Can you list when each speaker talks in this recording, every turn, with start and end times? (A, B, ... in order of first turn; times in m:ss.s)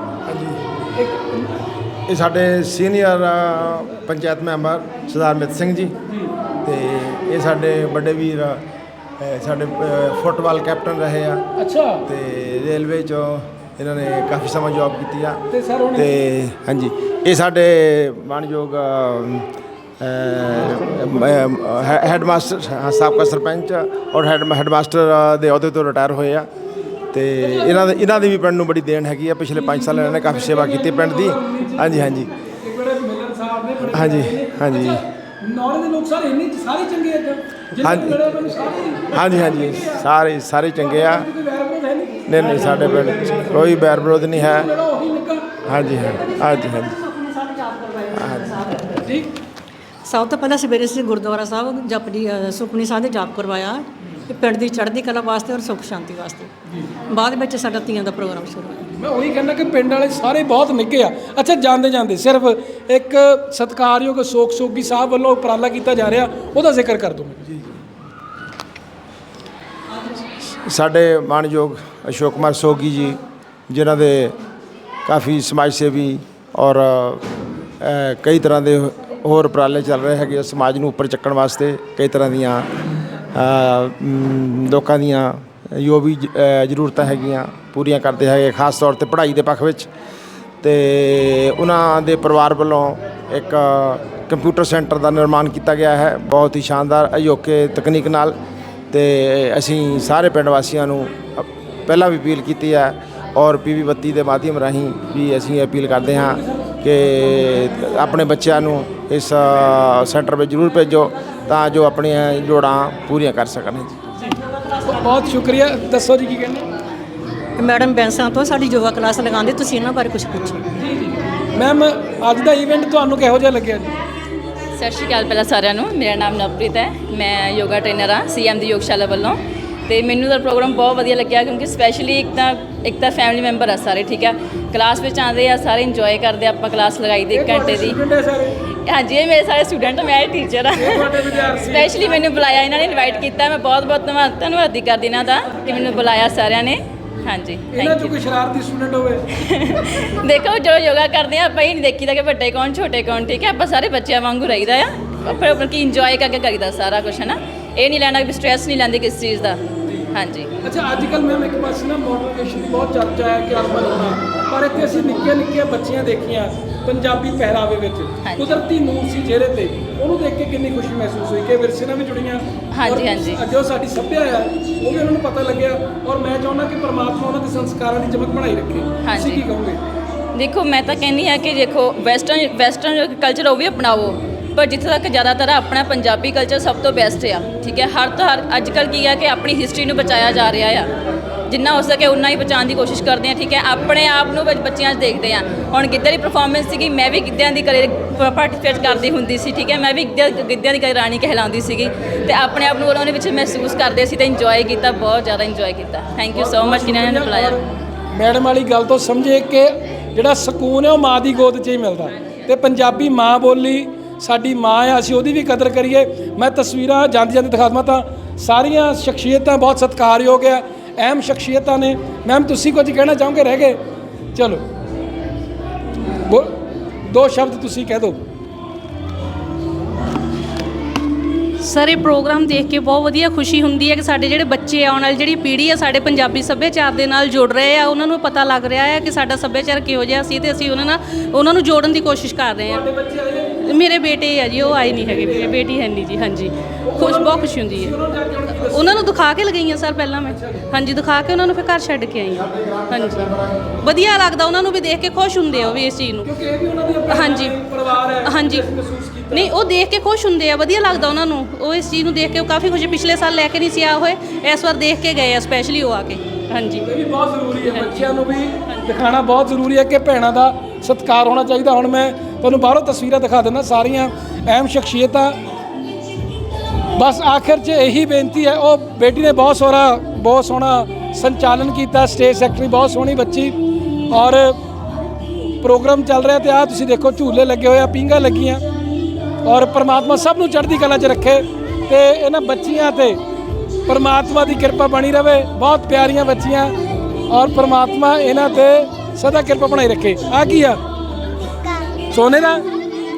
0:00.3-0:00.6 A
0:02.1-0:06.0 A
0:06.6-0:08.6 A
0:09.2-0:11.5 A
0:11.6-0:12.0 B
0:12.1-0:15.4 A
0:15.5-0:16.1 B
0:16.0-0:19.5 A
0:20.0-0:26.5 A
0:27.1-0:32.3 A
0:27.4-0:27.9 B
0:29.6-0:40.0 B
0:33.9-0:35.0 A
0:37.8-0:38.2 A
0:39.1-0:41.3 A
0:40.8-0:45.5 B
0:42.3-0:44.7 A
0:45.7-0:46.9 A
0:46.4-0:48.9 C
0:48.2-0:48.5 A
0:49.0-0:49.3 B
0:50.1-0:56.5 C
0:57.1-0:58.9 C
0:58.9-1:07.4 B
1:10.6-1:13.2 A
1:13.7-1:14.4 A
1:15.1-1:22.7 A
1:23.3-1:29.9 A
1:30.6-1:38.4 A
1:38.9-1:54.0 A
1:54.2-1:56.6 B
1:57.6-2:00.6 C
2:00.8-2:04.0 B
2:04.8-2:18.0 D
2:17.3-2:18.6 B
2:18.9-2:28.1 D
2:20.8-2:22.4 B
2:27.7-2:29.3 B
2:29.4-2:39.6 D
2:40.1-2:40.5 D
2:40.6-2:59.8 B
2:48.2-2:48.6 D
2:52.7-2:53.4 D
2:59.0-2:59.4 D
3:00.3-3:10.9 D
3:11.5-3:27.6 D
3:26.3-3:27.6 B
3:28.1-3:43.8 B
3:44.4-3:44.6 B
3:46.2-3:48.2 B
3:51.6-4:02.9 E
4:02.6-4:03.7 B
4:03.6-4:07.9 E
4:04.6-4:05.5 B
4:06.8-4:09.2 B
4:08.5-4:16.3 E
4:10.3-4:10.7 B
4:12.3-4:13.8 A
4:16.2-4:19.5 B
4:17.1-4:17.6 E
4:18.1-4:18.7 E
4:19.3-4:26.9 E
4:26.8-4:35.4 B
4:27.6-4:28.2 E
4:28.7-4:29.0 E
4:37.0-4:43.6 B
4:44.1-4:44.6 B
4:45.6-4:48.6 B
4:49.4-4:53.2 B
4:53.9-4:56.8 B
4:57.3-5:00.8 B
5:02.1-5:02.6 B